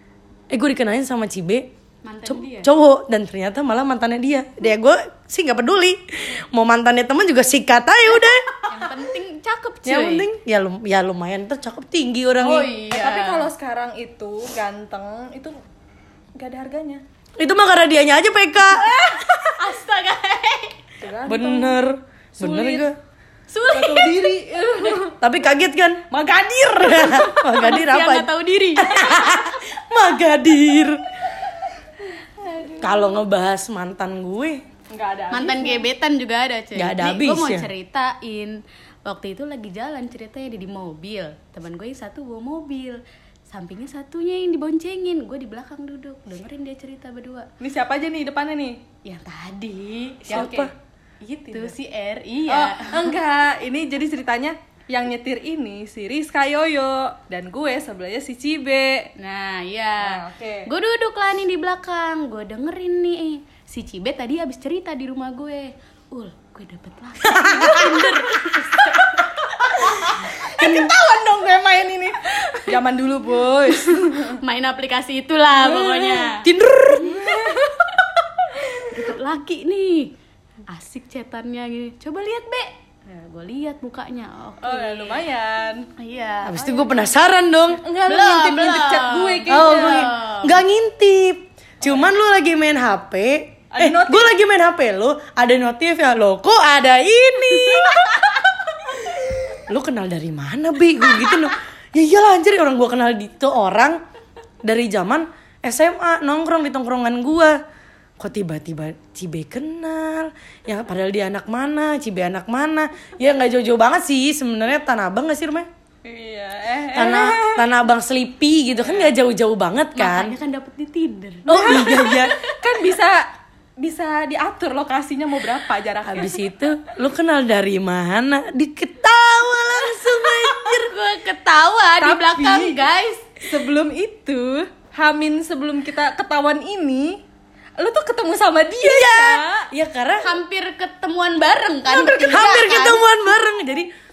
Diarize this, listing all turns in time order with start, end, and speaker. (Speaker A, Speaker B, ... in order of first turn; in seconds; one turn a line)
Speaker A: 0.5-1.6
Speaker B: 2.0-2.7
Speaker A: 2.2-8.5
Speaker B: 8.6-10.2
Speaker A: 9.8-12.7
Speaker B: 12.4-13.5
Speaker C: 12.8-15.6
Speaker C: 16.4-17.0
Speaker A: 17.4-18.9
Speaker B: 18.8-20.8
Speaker C: 21.0-21.8
Speaker A: 21.2-22.9
Speaker C: 22.4-22.9
Speaker B: 23.5-25.1
Speaker C: 23.7-25.2
Speaker A: 25.2-26.1
Speaker C: 26.1-27.3
Speaker A: 26.7-31.1
Speaker B: 27.1-29.5
Speaker C: 32.4-32.8
Speaker A: 32.8-34.6
Speaker C: 34.9-35.9
Speaker B: 35.3-47.5
Speaker A: 36.8-37.7
Speaker C: 47.6-48.8
Speaker B: 49.0-50.7
Speaker C: 50.3-50.7
Speaker A: 50.3-50.7
Speaker B: 51.2-53.1
Speaker C: 51.4-51.8
Speaker C: 52.5-59.1
Speaker B: 59.2-70.3
Speaker C: 60.0-60.7
Speaker A: 67.2-68.6
Speaker C: 70.0-74.4
Speaker A: 70.5-70.9
Speaker B: 73.7-76.5
Speaker A: 75.6-77.4
Speaker C: 77.1-77.8
Speaker C: 78.6-78.9
Speaker B: 78.8-80.1
Speaker B: 80.7-85.2
Speaker C: 84.6-85.9
Speaker B: 86.0-87.1
Speaker A: 86.4-87.8
Speaker C: 87.8-90.1
Speaker B: 88.1-90.6
Speaker A: 89.5-98.2
Speaker C: 93.7-94.3
Speaker A: 99.1-104.0
Speaker A: 104.6-107.6
Speaker A: 108.2-115.7
Speaker C: 116.0-117.7
Speaker A: 116.9-120.3
Speaker C: 118.8-119.1
Speaker B: 120.0-122.5
Speaker A: 121.5-122.3
Speaker C: 121.5-123.3
Speaker C: 123.8-126.3
Speaker A: 126.0-130.9
Speaker B: 130.1-133.2
Speaker C: 132.0-132.8
Speaker C: 133.4-137.2
Speaker C: 137.8-139.7
Speaker A: 138.8-140.3
Speaker B: 140.2-143.0
Speaker C: 141.9-142.3
Speaker A: 142.2-143.9